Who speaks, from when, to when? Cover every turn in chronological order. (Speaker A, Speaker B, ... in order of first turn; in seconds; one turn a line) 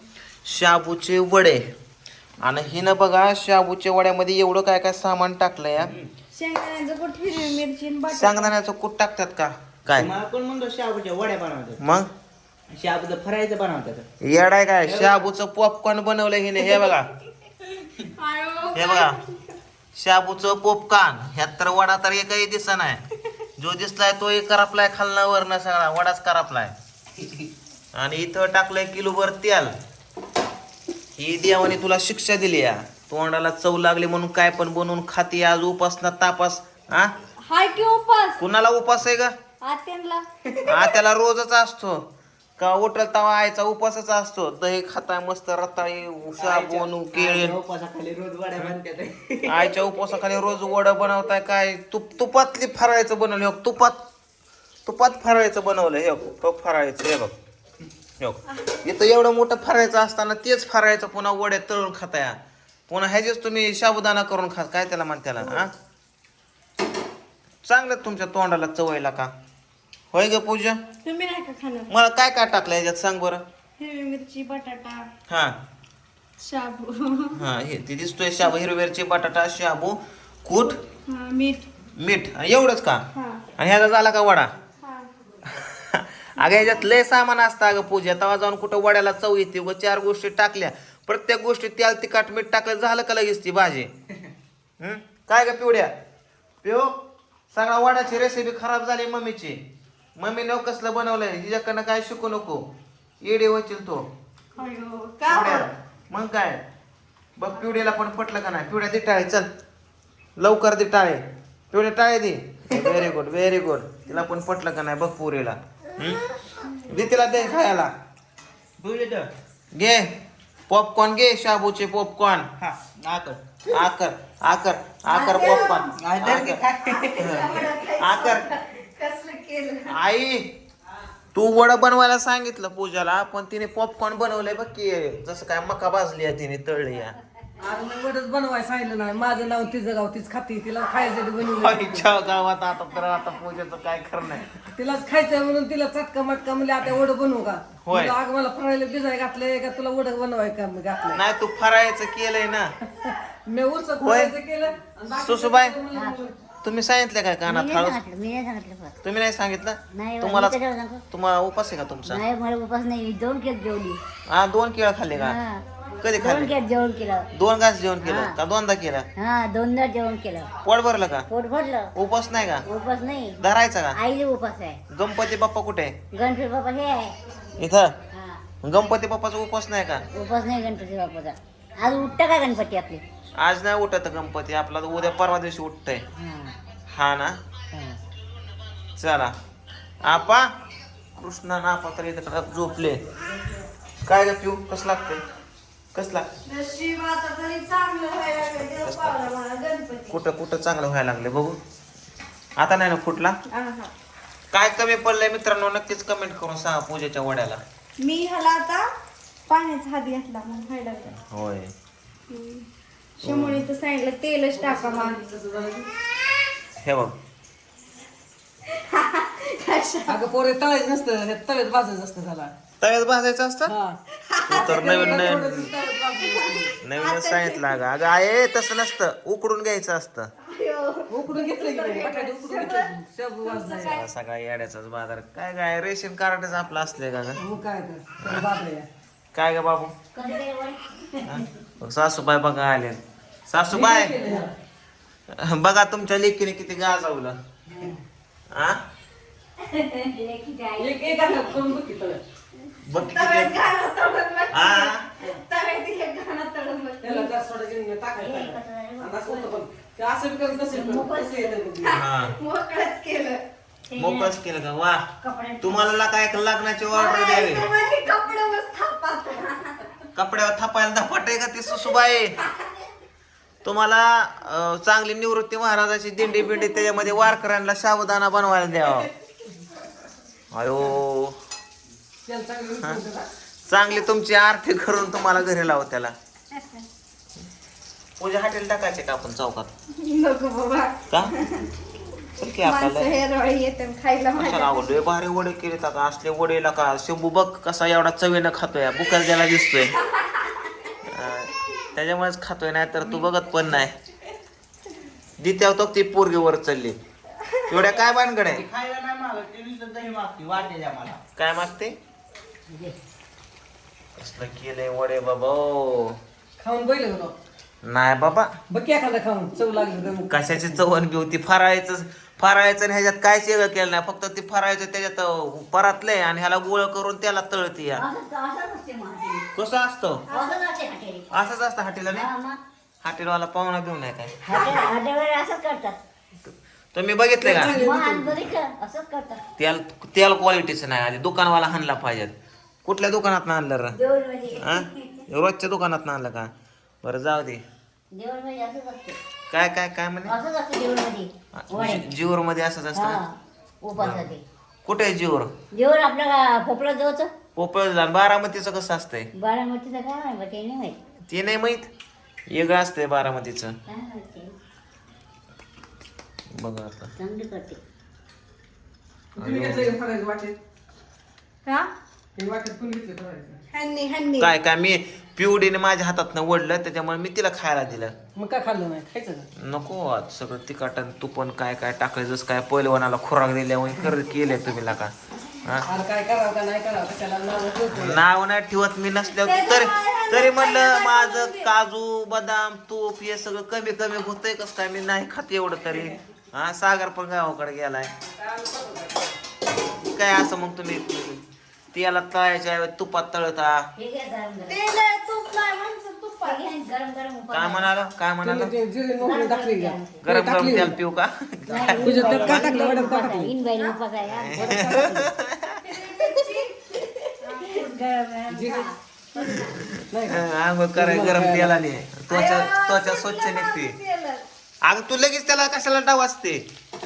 Speaker A: 0.5-1.6
Speaker A: 2.4-5.9
Speaker B: 5.8-6.1
Speaker C: 6.3-8.5
Speaker A: 8.1-10.1
Speaker B: 9.9-11.8
Speaker A: 11.8-12.1
Speaker B: 12.7-14.1
Speaker A: 14.2-17.1
Speaker B: 14.8-15.3
Speaker C: 16.7-16.9
Speaker C: 18.1-19.4
Speaker A: 18.7-19.2
Speaker A: 19.9-23.0
Speaker A: 23.6-26.8
Speaker A: 27.9-29.7
Speaker A: 31.2-37.1
Speaker C: 37.5-38.4
Speaker A: 38.4-39.3
Speaker C: 39.6-40.2
Speaker A: 40.6-42.0
Speaker A: 42.6-47.6
Speaker B: 46.4-49.8
Speaker A: 49.5-54.0
Speaker A: 54.9-57.4
Speaker A: 58.2-65.7
Speaker A: 67.7-69.3
Speaker A: 70.1-70.8
Speaker C: 71.0-71.9
Speaker A: 71.9-73.4
Speaker C: 73.8-75.1
Speaker A: 75.3-75.6
Speaker C: 76.4-77.4
Speaker A: 77.3-80.8
Speaker C: 80.6-81.6
Speaker A: 82.0-83.0
Speaker C: 83.2-83.4
Speaker A: 83.6-84.5
Speaker C: 84.8-85.1
Speaker A: 85.5-93.9
Speaker A: 94.8-95.9
Speaker A: 96.6-97.0
Speaker A: 97.5-99.6
Speaker A: 100.2-102.7
Speaker A: 103.2-104.1
Speaker C: 104.5-105.7
Speaker A: 105.3-106.6
Speaker A: 107.4-109.5
Speaker C: 107.5-107.8
Speaker A: 110.4-116.2
Speaker A: 116.8-117.9
Speaker B: 118.8-119.3
Speaker A: 119.7-120.1
Speaker A: 120.7-122.5
Speaker B: 122.6-123.6
Speaker A: 123.7-126.6
Speaker C: 125.1-126.0
Speaker B: 126.0-127.5
Speaker C: 126.9-130.0
Speaker A: 127.2-127.4
Speaker A: 128.0-128.5
Speaker A: 129.9-130.5
Speaker A: 131.3-137.2
Speaker D: 137.6-142.1
Speaker A: 141.5-144.7
Speaker D: 144.8-151.2
Speaker A: 147.8-148.2
Speaker A: 151.1-152.7
Speaker D: 153.0-156.4
Speaker A: 154.0-154.3
Speaker A: 155.2-155.8
Speaker E: 155.9-156.2
Speaker A: 156.6-158.0
Speaker E: 157.5-158.9
Speaker A: 159.0-160.6
Speaker E: 159.9-161.0
Speaker A: 161.1-162.2
Speaker E: 162.1-164.0
Speaker A: 164.3-165.4
Speaker E: 165.1-167.3
Speaker A: 166.0-166.6
Speaker A: 167.3-169.1
Speaker E: 168.0-168.4
Speaker E: 169.2-170.5
Speaker A: 170.6-171.3
Speaker E: 171.3-171.9
Speaker A: 171.9-172.7
Speaker E: 172.7-173.4
Speaker A: 173.4-174.0
Speaker E: 173.9-174.8
Speaker A: 174.9-176.0
Speaker E: 176.1-177.2
Speaker A: 177.6-178.0
Speaker E: 178.1-178.4
Speaker A: 178.6-180.1
Speaker E: 180.1-183.0
Speaker A: 183.4-186.1
Speaker E: 186.2-186.6
Speaker A: 186.9-187.4
Speaker A: 189.0-189.3
Speaker A: 190.0-190.5
Speaker A: 191.2-193.1
Speaker A: 194.1-195.2
Speaker A: 195.9-196.3
Speaker C: 196.5-200.2
Speaker A: 198.8-199.3
Speaker A: 200.1-201.6
Speaker A: 202.6-203.4
Speaker C: 203.5-203.9
Speaker A: 204.5-207.6
Speaker C: 208.0-208.9
Speaker C: 209.5-211.1
Speaker A: 211.2-211.7
Speaker C: 212.3-212.7
Speaker C: 213.2-215.2
Speaker A: 213.2-213.6
Speaker D: 214.6-215.9
Speaker A: 216.8-217.2
Speaker C: 218.7-220.2
Speaker D: 220.1-222.5
Speaker A: 222.8-223.8
Speaker D: 223.7-224.0
Speaker C: 224.2-225.4
Speaker A: 224.5-225.7
Speaker D: 224.5-226.8
Speaker C: 226.1-227.8
Speaker A: 226.8-230.3
Speaker C: 230.5-232.9
Speaker D: 231.1-234.0
Speaker C: 233.4-234.1
Speaker A: 233.9-237.4
Speaker D: 237.4-238.9
Speaker A: 238.2-238.4
Speaker A: 239.3-239.9
Speaker E: 240.2-241.4
Speaker A: 241.2-244.2
Speaker D: 243.7-244.5
Speaker A: 245.3-247.4
Speaker D: 247.8-248.0
Speaker A: 248.5-248.8
Speaker E: 249.6-251.7
Speaker D: 250.8-252.2
Speaker A: 252.8-253.6
Speaker C: 252.9-257.3
Speaker A: 254.5-255.1
Speaker D: 257.0-262.0
Speaker E: 258.2-259.6
Speaker E: 260.6-261.6
Speaker C: 261.8-263.4
Speaker A: 261.9-262.4
Speaker E: 263.9-264.4
Speaker A: 264.0-267.7
Speaker E: 265.2-265.9
Speaker C: 266.9-269.9
Speaker A: 270.1-272.4
Speaker A: 273.6-279.1
Speaker A: 280.5-281.4
Speaker D: 282.2-283.3
Speaker A: 283.7-286.1
Speaker A: 288.2-289.7
Speaker C: 290.0-291.7
Speaker A: 292.4-293.2
Speaker C: 292.6-295.0
Speaker A: 294.4-300.0
Speaker C: 300.1-300.6
Speaker A: 301.0-303.9
Speaker A: 305.4-307.0
Speaker C: 307.5-307.8
Speaker A: 307.7-308.6
Speaker B: 308.5-311.2
Speaker A: 311.4-312.0
Speaker A: 314.2-316.2
Speaker D: 316.6-317.4
Speaker A: 317.8-318.5
Speaker D: 318.7-320.3
Speaker A: 320.3-328.1
Speaker E: 327.9-329.5
Speaker A: 329.6-330.3
Speaker C: 330.3-330.6
Speaker E: 330.3-331.3
Speaker A: 331.3-332.3
Speaker E: 332.1-332.6
Speaker A: 333.0-334.5
Speaker E: 334.4-336.0
Speaker A: 336.9-337.7
Speaker D: 337.4-338.4
Speaker E: 337.7-339.4
Speaker A: 339.6-342.3
Speaker A: 342.9-344.0
Speaker E: 343.9-345.2
Speaker A: 344.6-346.5
Speaker A: 347.0-347.6
Speaker E: 348.1-349.2
Speaker A: 349.5-350.4
Speaker E: 350.3-352.1
Speaker A: 351.5-353.2
Speaker E: 352.9-354.4
Speaker A: 353.9-354.3
Speaker A: 354.9-355.5
Speaker E: 355.7-357.3
Speaker A: 357.6-359.3
Speaker E: 359.4-361.0
Speaker A: 361.3-361.9
Speaker A: 362.5-363.8
Speaker E: 363.9-364.5
Speaker A: 366.6-367.1
Speaker E: 367.2-367.8
Speaker D: 369.4-370.6
Speaker A: 369.4-369.9
Speaker C: 371.6-371.9
Speaker D: 372.4-373.6
Speaker C: 373.7-374.5
Speaker A: 374.4-378.1
Speaker D: 378.4-379.5
Speaker A: 379.6-385.9
Speaker D: 385.9-388.2
Speaker A: 387.9-398.1
Speaker C: 389.3-391.7
Speaker D: 398.2-399.3
Speaker A: 400.1-401.4
Speaker A: 401.9-403.9
Speaker E: 404.0-404.9
Speaker C: 404.7-406.6
Speaker E: 406.4-407.9
Speaker A: 407.5-408.8
Speaker D: 408.4-410.9
Speaker E: 409.1-410.3
Speaker A: 410.2-412.9
Speaker E: 411.7-415.0
Speaker B: 411.7-412.6
Speaker D: 412.0-413.6
Speaker C: 412.8-414.0
Speaker A: 414.3-415.8
Speaker D: 414.5-415.3
Speaker C: 415.8-416.8
Speaker C: 417.4-418.0
Speaker E: 417.6-419.8
Speaker D: 418.5-418.9
Speaker A: 419.4-424.0
Speaker D: 420.1-421.8
Speaker C: 422.3-424.4
Speaker A: 424.8-426.6